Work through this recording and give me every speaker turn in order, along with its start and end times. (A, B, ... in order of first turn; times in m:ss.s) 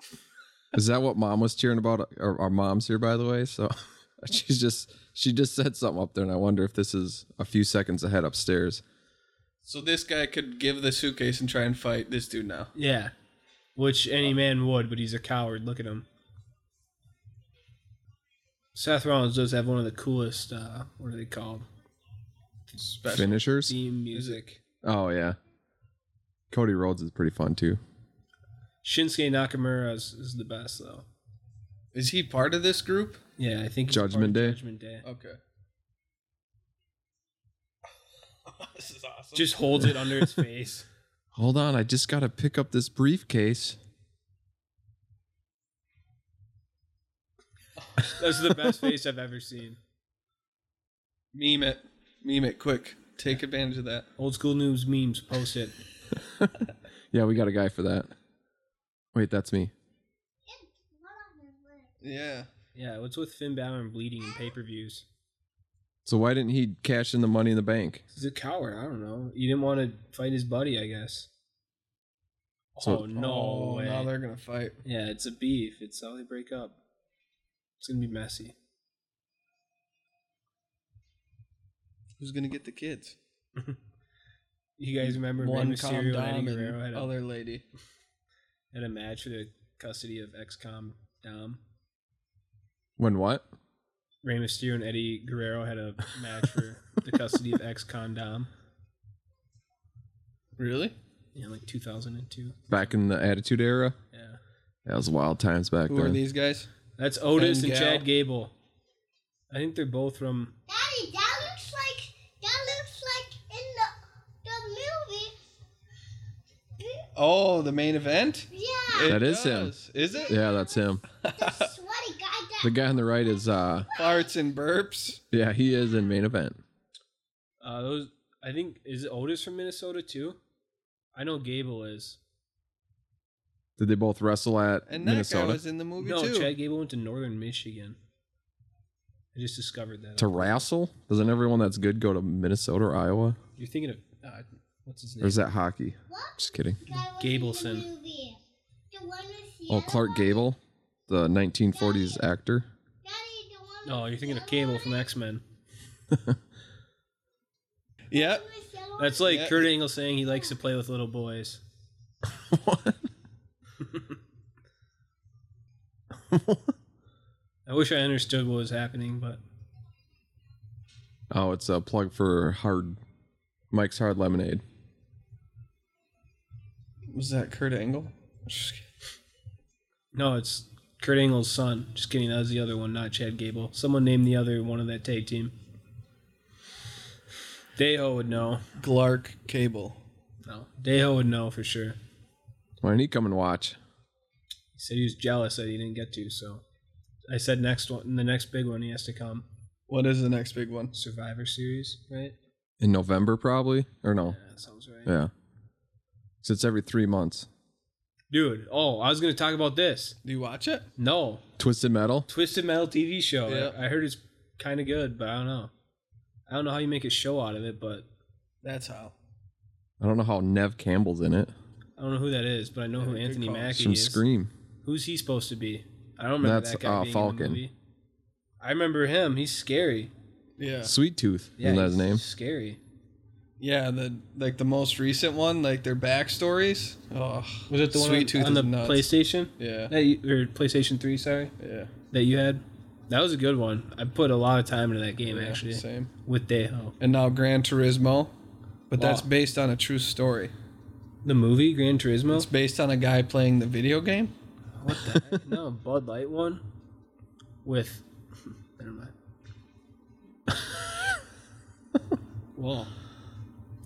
0:00.7-0:08.8 A
0:09.6-0:12.7 B
0:12.8-0:13.1 C
0:13.8-0:16.0 C
0:18.7-0:21.6 C
0:22.8-0:23.4 B
0:23.1-0:23.8 A
0:23.6-0:24.6 C
0:24.1-0:24.4 B
0:24.8-0:25.4 A
0:26.5-0:27.8 A
0:28.8-0:31.0 C
0:31.9-0:33.2 B
0:33.4-0:35.0 C
0:33.9-0:34.6 A
0:35.0-0:35.4 B
0:38.5-0:39.6 B
0:39.4-0:40.9 C
0:41.4-0:43.8 A
0:48.0-0:49.8 C
0:51.3-0:54.1 B
0:54.2-0:55.8 C
0:56.2-0:58.1 A
0:59.1-0:59.7 A
1:00.4-1:01.9 D
1:02.0-1:02.5 B
1:02.8-1:05.0 C
1:06.0-1:08.0 A
1:08.1-1:11.3 C
1:12.8-1:14.1 C
1:13.1-1:14.8 B
1:14.8-1:16.8 C
1:17.8-1:18.5 C
1:22.2-1:23.2 B
1:24.8-1:27.1 C
1:25.0-1:27.6 B
1:28.7-1:31.6 C
1:33.0-1:33.4 A
1:34.2-1:38.5 C
1:40.6-1:40.9 B
1:41.4-1:42.7 C
1:42.7-1:44.0 A
1:44.1-1:44.4 C
1:44.9-1:46.2 A
1:45.9-1:46.7 B
1:47.0-1:48.5 C
1:47.4-1:48.1 B
1:49.5-1:50.5 C
1:50.7-1:55.4 D
1:56.8-1:57.1 D
1:57.1-2:00.4 B
1:58.5-1:59.2 D
1:59.0-1:59.8 A
2:00.0-2:04.3 D
2:00.3-2:01.0 A
2:01.2-2:01.7 B
2:02.6-2:03.9 A
2:03.9-2:05.2 B
2:05.3-2:06.6 A
2:07.6-2:10.4 C
2:11.1-2:12.2 C
2:13.8-2:15.6 A
2:14.9-2:16.5 B
2:16.0-2:18.0 C
2:19.3-2:20.6 C
2:20.2-2:23.4 A
2:23.6-2:25.4 C
2:25.2-2:26.8 A
2:26.1-2:28.4 D
2:27.2-2:27.9 C
2:28.9-2:30.5 D
2:29.7-2:32.7 A
2:31.7-2:32.3 D
2:33.0-2:35.1 D
2:33.8-2:35.4 C
2:38.1-2:38.4 B
2:38.1-2:39.4 D
2:39.0-2:41.6 C
2:39.2-2:39.7 B
2:42.4-2:43.0 A
2:46.3-2:46.7 A
2:47.6-2:49.4 C
2:51.3-2:53.0 A
2:53.7-2:54.6 A
2:57.1-2:58.8 B
3:00.1-3:05.5 C
3:07.8-3:08.6 C
3:08.8-3:10.0 B
3:10.5-3:12.0 C
3:12.8-3:13.8 A
3:14.8-3:16.6 C
3:17.3-3:19.5 C
3:19.9-3:20.9 B
3:20.9-3:22.4 C
3:22.8-3:24.4 A
3:24.2-3:25.2 C
3:25.0-3:25.3 A
3:26.4-3:27.5 A
3:28.3-3:30.2 C
3:30.2-3:30.9 B
3:31.0-3:31.4 C
3:31.6-3:32.3 A
3:32.3-3:35.7 C
3:33.5-3:33.8 B
3:36.5-3:38.0 C
3:38.6-3:39.1 B
3:40.0-3:41.5 A
3:42.0-3:44.2 C
3:43.0-3:43.8 B
3:43.7-3:44.5 A
3:44.8-3:47.7 C
3:46.4-3:47.6 A
3:48.6-3:50.1 C
3:50.6-3:50.9 B
3:50.8-3:52.2 A
3:51.6-3:52.8 C
3:53.6-3:59.9 B
3:57.7-4:01.5 C
4:01.6-4:01.9 B
4:02.1-4:07.0 C
4:05.2-4:06.1 B
4:07.0-4:08.3 B
4:08.9-4:10.5 B
4:09.0-4:09.3 C
4:11.2-4:12.5 C
4:12.3-4:14.3 B
4:14.8-4:16.6 C
4:17.6-4:18.0 C
4:18.8-4:19.1 C
4:22.6-4:22.9 C